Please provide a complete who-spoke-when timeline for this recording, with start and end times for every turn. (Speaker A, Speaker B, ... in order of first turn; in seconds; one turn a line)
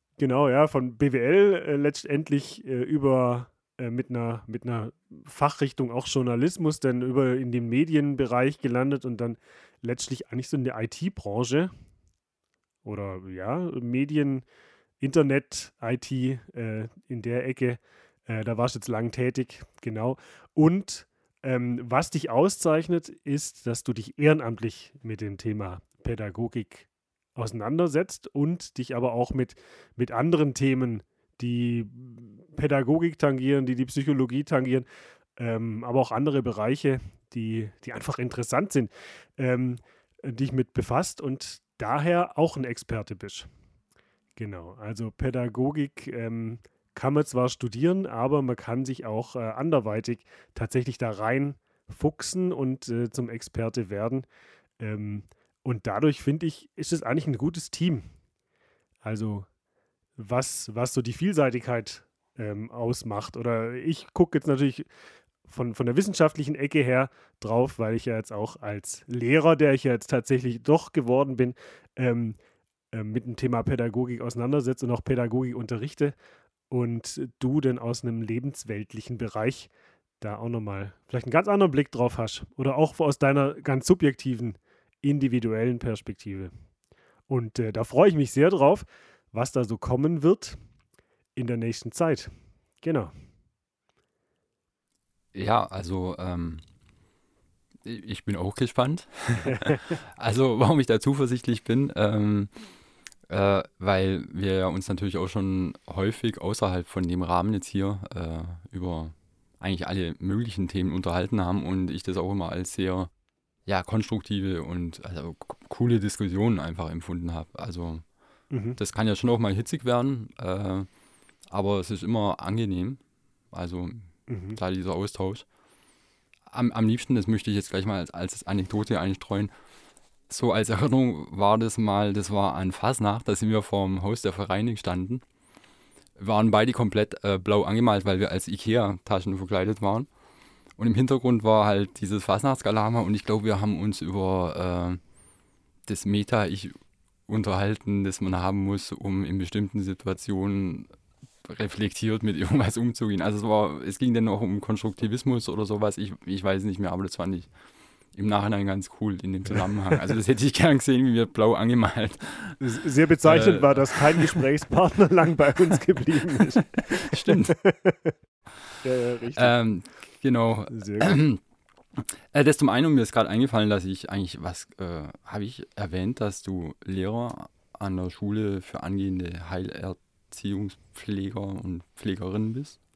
Speaker A: 0.2-11.7
Speaker A: 12.8-14.4
Speaker A: 15.0-43.5
Speaker A: 44.4-54.3
Speaker A: 54.8-58.1
Speaker A: 59.0-59.5
Speaker A: 60.2-64.9
Speaker A: 65.5-72.4
Speaker A: 72.9-76.2
Speaker A: 76.7-86.5
Speaker A: 87.3-90.6
Speaker A: 91.3-93.1
Speaker B: 95.3-96.6
Speaker B: 97.8-102.5
Speaker A: 99.5-100.0
Speaker B: 103.3-113.1
Speaker B: 113.7-118.0
Speaker A: 118.5-118.8
Speaker B: 118.8-120.9
Speaker B: 121.5-123.0
Speaker B: 123.5-125.4
Speaker A: 124.3-124.6
Speaker B: 126.5-129.5
Speaker B: 130.3-135.2
Speaker B: 136.2-140.1
Speaker B: 140.8-145.0
Speaker B: 145.9-146.7
Speaker B: 147.3-150.9
Speaker B: 151.4-157.5
Speaker B: 158.1-162.6
Speaker A: 159.5-160.0
Speaker A: 162.6-168.1
Speaker B: 163.2-164.4
Speaker B: 166.9-167.6
Speaker A: 168.8-169.6
Speaker B: 169.3-171.4
Speaker A: 170.7-171.2
Speaker B: 171.9-182.8